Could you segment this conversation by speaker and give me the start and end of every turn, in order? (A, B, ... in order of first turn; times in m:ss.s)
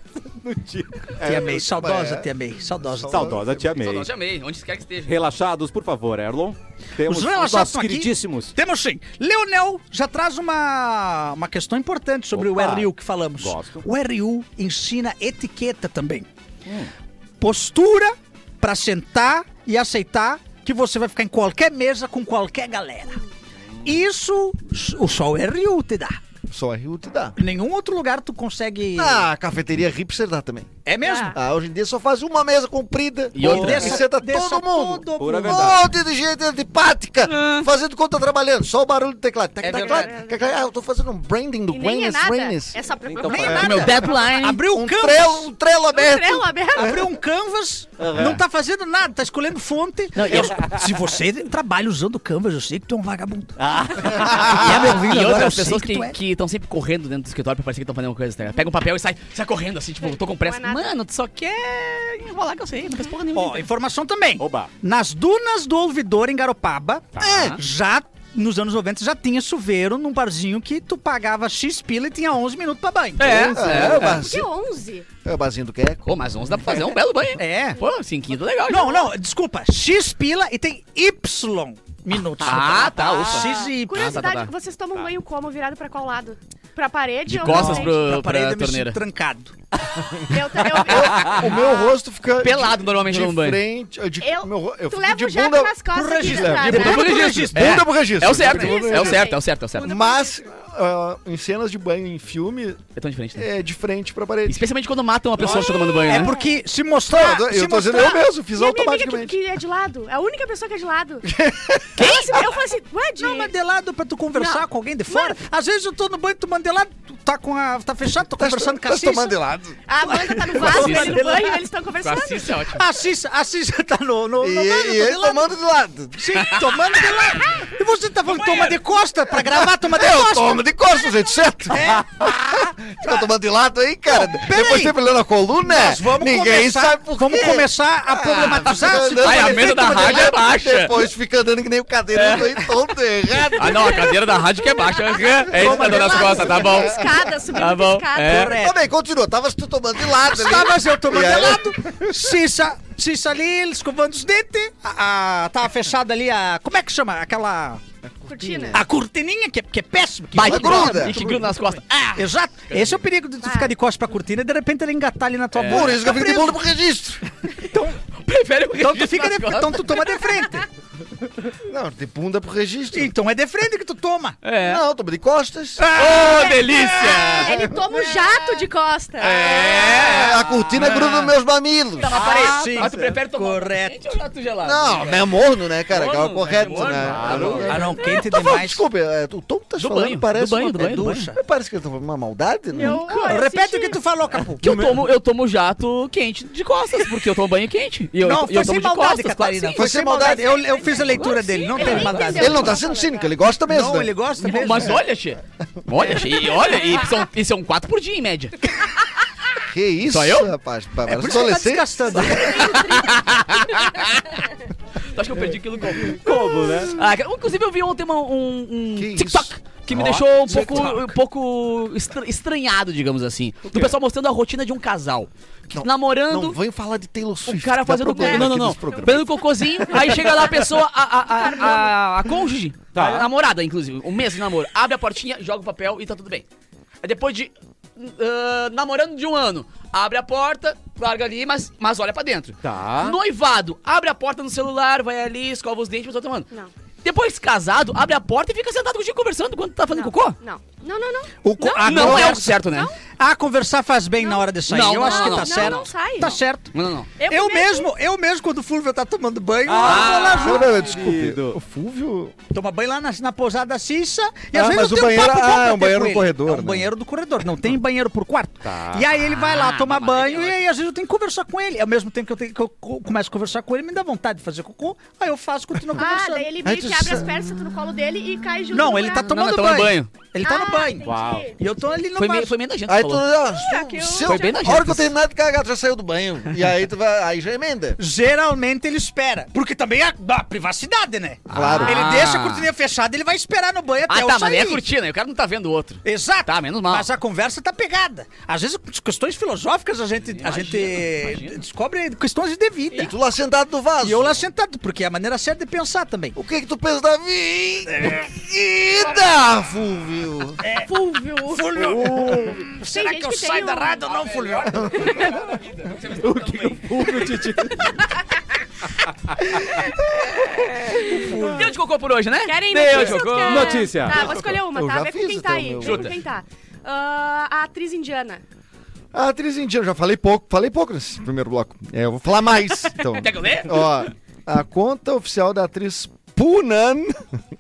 0:00.4-0:01.2 A
0:01.1-0:03.8 B
0:01.2-0:03.4 C
0:03.1-0:04.1 A
0:03.7-0:05.2 D
0:05.0-0:08.5 A
0:07.0-0:16.3 C
0:12.3-0:13.8 A
0:17.4-0:23.2 C
0:23.8-0:26.2 C
0:26.5-0:27.4 B
0:27.4-0:29.3 C
0:29.0-0:30.7 B
0:30.8-0:31.4 C
0:31.0-0:31.4 E
0:31.3-0:42.8 B
0:33.3-0:34.0 D
0:33.4-0:35.8 C
0:35.2-0:35.8 A
0:37.2-0:37.7 D
0:39.6-0:40.2 C
0:39.7-0:40.6 E
0:41.7-0:44.1 E
0:43.1-0:43.7 A
0:43.2-0:45.5 C
0:43.4-0:43.9 B
0:43.5-0:44.6 D
0:44.7-0:47.0 B
0:45.9-0:47.0 E
0:46.8-0:56.2 C
0:48.0-0:48.3 A
0:48.2-0:48.4 D
0:50.2-0:50.6 D
0:50.4-0:51.0 A
0:53.6-0:54.1 A
0:54.1-1:03.7 D
1:00.0-1:01.0 E
1:03.3-1:13.8 C
1:04.4-1:04.7 A
1:07.2-1:07.6 D
1:13.2-1:14.3 D
1:13.2-1:14.5 B
1:13.8-1:15.1 E
1:15.2-1:16.1 B
1:16.1-1:19.1 D
1:17.4-1:17.8 C
1:18.7-1:24.2 C
1:22.4-1:24.5 D
1:23.4-1:28.0 E
1:27.3-1:29.0 D
1:27.4-1:29.5 C
1:30.3-1:31.9 E
1:30.6-1:42.8 B
1:32.4-1:33.6 D
1:34.2-1:37.3 E
1:35.9-1:37.9 C
1:36.6-1:39.9 D
1:38.3-1:40.4 E
1:43.0-1:43.5 D
1:43.4-1:44.6 B
1:44.5-1:46.3 D
1:45.4-1:46.6 E
1:46.0-1:48.2 C
1:47.1-1:49.4 B
1:48.6-1:51.3 E
1:51.3-1:52.3 B
1:52.0-1:53.5 E
1:52.0-1:52.5 D
1:53.2-1:59.4 C
1:54.4-1:55.4 E
1:58.4-1:59.8 B
1:59.9-2:02.6 E
2:00.0-2:01.6 C
2:00.6-2:01.3 D
2:02.0-2:02.8 D
2:02.7-2:05.5 C
2:04.4-2:07.2 B
2:06.2-2:10.6 C
2:08.3-2:08.8 D
2:09.4-2:24.2 B
2:11.7-2:12.3 C
2:14.1-2:15.0 C
2:15.6-2:20.3 C
2:19.1-2:21.1 D
2:22.1-2:22.7 D
2:23.6-2:28.6 D
2:23.7-2:28.5 E
2:25.5-2:27.5 B
2:25.6-2:26.3 C
2:28.2-2:28.8 C
2:28.4-2:32.3 B
2:30.2-2:37.8 C
2:38.1-2:38.8 B
2:38.3-2:38.8 E
2:38.7-2:41.5 C
2:40.4-2:43.0 D
2:40.4-2:41.3 B
2:42.2-2:46.6 C
2:43.4-2:43.7 E
2:45.6-2:46.0 D
2:45.7-2:47.2 B
2:47.7-2:48.0 C
2:48.2-2:50.0 D
2:48.8-2:50.7 C
2:51.6-2:53.1 B
2:52.9-2:54.4 C
2:54.4-2:54.8 D
2:54.6-2:55.9 B
2:55.8-2:58.7 C
2:55.9-2:57.5 D
2:56.2-2:59.5 E
2:57.5-2:57.8 B
2:59.2-3:01.3 D
2:59.4-3:02.1 B
3:02.0-3:05.3 D
3:02.1-3:04.2 C
3:04.6-3:13.4 B
3:05.9-3:07.7 D
3:06.9-3:07.8 A
3:07.7-3:08.8 C
3:08.0-3:08.3 E
3:09.8-3:11.2 D
3:10.8-3:11.4 C
3:12.7-3:14.0 E
3:12.8-3:14.6 C
3:14.6-3:19.8 D
3:14.6-3:15.0 B
3:18.2-3:22.8 C
3:19.7-3:20.5 B
3:20.2-3:23.3 E
3:21.7-3:22.7 D
3:22.3-3:24.2 B
3:23.7-3:25.0 C
3:24.4-3:28.7 D
3:29.7-3:32.6 B
3:30.1-3:30.5 D
3:31.1-3:32.8 C
3:32.2-3:33.8 E
3:32.2-3:34.4 D
3:35.0-3:46.6 D
3:36.1-3:37.0 A
3:38.9-3:39.5 B
3:39.9-3:40.9 A
3:40.5-3:41.0 C
3:45.7-3:49.3 B
3:47.4-3:56.5 D
3:48.2-3:49.3 E
3:49.9-3:50.4 E
3:51.3-3:52.0 E
3:52.9-3:53.3 A
3:57.0-4:06.5 D
4:02.6-4:03.2 A
4:07.0-4:10.4 D
4:09.9-4:13.0 E
4:11.4-4:12.6 C
4:11.8-4:12.9 D
4:13.2-4:20.8 C
4:14.2-4:14.5 E
4:14.7-4:17.1 D
4:15.0-4:16.4 E
4:17.2-4:17.9 E
4:19.7-4:21.6 A
4:19.8-4:20.6 D
4:20.4-4:22.4 B
4:22.5-4:36.5 C
4:24.5-4:26.9 B
4:28.6-4:29.1 A
4:29.2-4:30.6 D
4:35.9-4:39.3 E
4:36.6-4:37.5 B
4:38.7-4:42.5 C
4:39.1-4:40.1 D
4:40.4-4:41.6 E
4:41.0-4:41.5 A
4:42.2-4:43.3 D
4:42.9-4:48.0 B
4:43.4-4:44.8 E
4:44.2-4:45.1 D
4:48.0-4:54.8 C
4:51.5-4:52.1 B
4:51.5-4:52.7 D
4:54.1-4:57.1 D
4:56.0-5:03.1 C
5:00.3-5:01.6 D
5:03.0-5:04.4 B
5:04.0-5:06.4 C
5:06.4-5:10.6 B
5:10.6-5:10.9 C
5:10.8-5:11.7 E
5:11.5-5:15.1 C
5:11.8-5:12.6 A
5:12.8-5:14.1 E
5:14.1-5:17.4 D
5:14.9-5:15.4 E
5:16.2-5:17.9 A
5:19.3-5:19.6 A
5:20.5-5:21.3 E
5:20.9-5:24.2 D
5:21.0-5:21.6 C
5:22.4-5:28.4 E
5:22.9-5:24.5 A
5:24.1-5:26.2 B
5:25.8-5:26.2 D
5:29.1-5:37.2 B
5:33.2-5:34.0 D